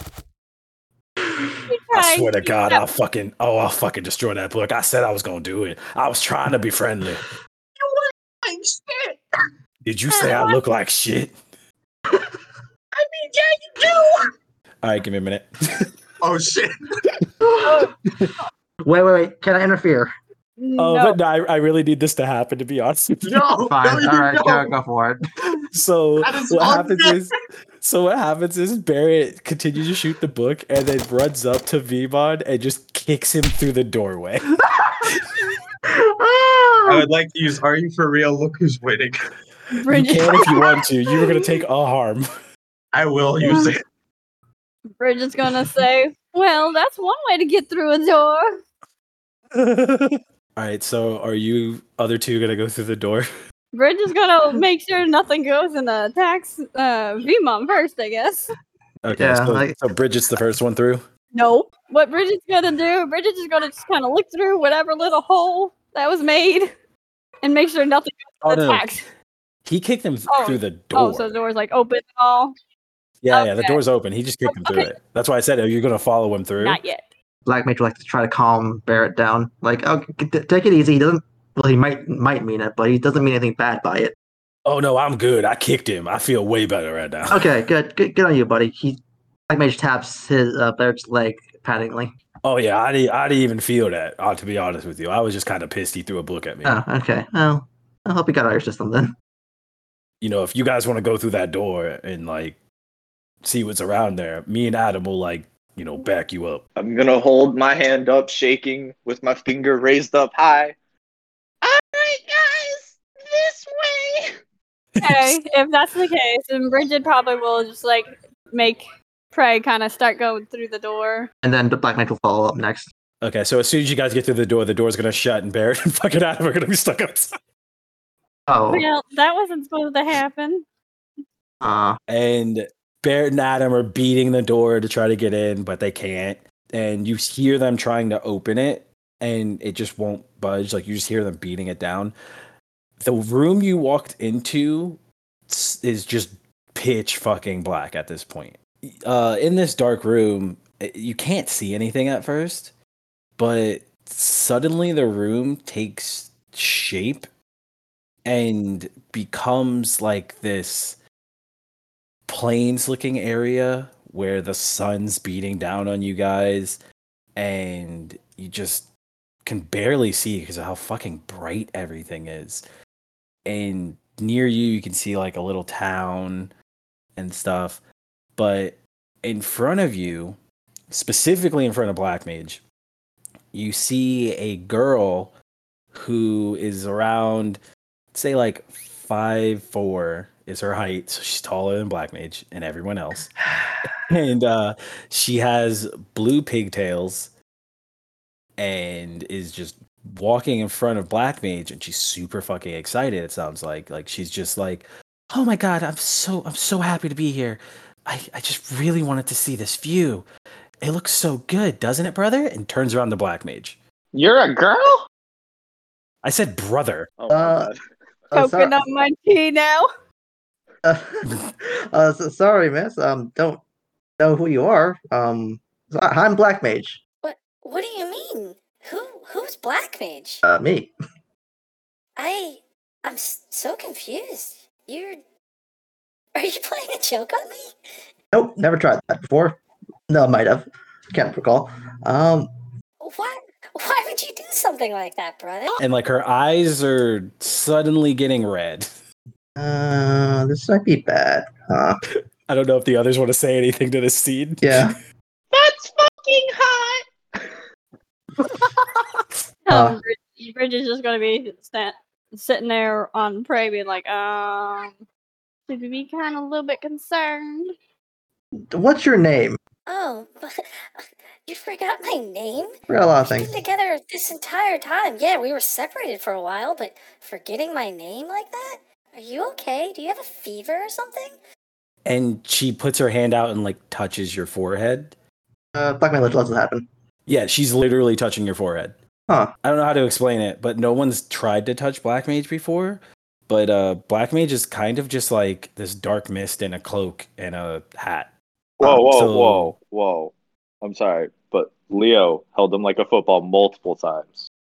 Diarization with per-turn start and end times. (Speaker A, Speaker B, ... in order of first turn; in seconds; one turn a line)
Speaker A: 1.7-2.8
Speaker B: 1.9-7.2
Speaker C: 8.4-9.1
Speaker B: 9.8-11.4
Speaker A: 10.1-10.6
Speaker C: 13.0-14.1
Speaker B: 14.8-15.9
Speaker C: 16.2-17.2
Speaker D: 17.4-17.7
Speaker A: 17.6-17.9
Speaker D: 18.9-20.1
Speaker A: 20.6-21.2
Speaker B: 20.8-23.5
Speaker C: 23.2-24.7
Speaker D: 23.7-25.2
Speaker B: 25.7-35.2
Speaker C: 26.2-27.2
Speaker D: 35.9-37.1
Speaker C: 36.9-39.2
Speaker A: 39.7-41.4
Speaker B: 39.9-42.3
Speaker C: 42.9-43.8
Speaker A: 43.4-43.7
Speaker A: 45.0-48.6
Speaker B: 49.5-53.3
Speaker A: 53.7-58.5
Speaker B: 59.0-61.0
Speaker D: 59.1-59.8
Speaker A: 61.3-66.7
Speaker A: 67.4-69.0
Speaker B: 68.4-69.0
Speaker B: 69.7-71.3
Speaker A: 70.3-72.5
Speaker B: 73.2-76.8
Speaker A: 73.3-73.8
Speaker A: 74.5-74.9
Speaker A: 76.6-77.1
Speaker D: 77.5-84.2
Speaker B: 84.7-87.5
Speaker D: 87.3-92.1
Speaker B: 92.4-96.8
Speaker D: 96.6-99.1
Speaker B: 100.2-102.6
Speaker B: 103.4-106.7
Speaker E: 106.8-110.8
Speaker E: 111.7-114.3
Speaker B: 115.0-115.4
Speaker A: 115.0-121.3
Speaker D: 121.4-122.9
Speaker B: 123.2-127.3
Speaker D: 128.5-128.8
Speaker A: 128.7-130.7
Speaker D: 131.6-132.0
Speaker B: 132.1-142.1
Speaker B: 143.0-152.7
Speaker B: 153.4-157.3
Speaker B: 158.2-161.0
Speaker B: 162.3-166.8
Speaker B: 167.4-168.9
Speaker B: 169.4-172.6
Speaker B: 173.5-176.5
Speaker B: 177.2-177.8
Speaker B: 178.4-180.4
Speaker B: 180.9-182.6
Speaker B: 183.5-185.3
Speaker B: 185.9-187.6
Speaker B: 188.1-193.3
Speaker B: 194.1-197.3
Speaker B: 198.6-210.3
Speaker B: 210.8-213.8
Speaker E: 214.1-215.1
Speaker B: 216.2-217.1
Speaker E: 217.2-217.8
Speaker D: 217.3-217.7
Speaker D: 218.3-218.7
Speaker A: 218.3-219.9
Speaker D: 220.8-223.6
Speaker D: 224.2-227.0
Speaker F: 227.2-230.4
Speaker D: 230.4-230.9
Speaker F: 232.2-235.2
Speaker F: 236.3-237.7
Speaker D: 238.3-242.5
Speaker F: 243.0-245.8
Speaker B: 245.8-248.9
Speaker D: 249.6-252.0
Speaker B: 252.5-254.9
Speaker D: 254.6-254.9
Speaker E: 255.5-257.0
Speaker A: 259.7-265.0
Speaker D: 259.7-260.0
Speaker A: 265.7-267.7
Speaker D: 268.7-269.6
Speaker F: 269.9-281.4
Speaker D: 272.9-273.6
Speaker B: 282.1-285.1
Speaker D: 285.8-286.9
Speaker B: 287.3-288.9
Speaker D: 289.3-289.5
Speaker B: 289.6-298.3
Speaker E: 298.8-304.5
Speaker B: 298.8-299.8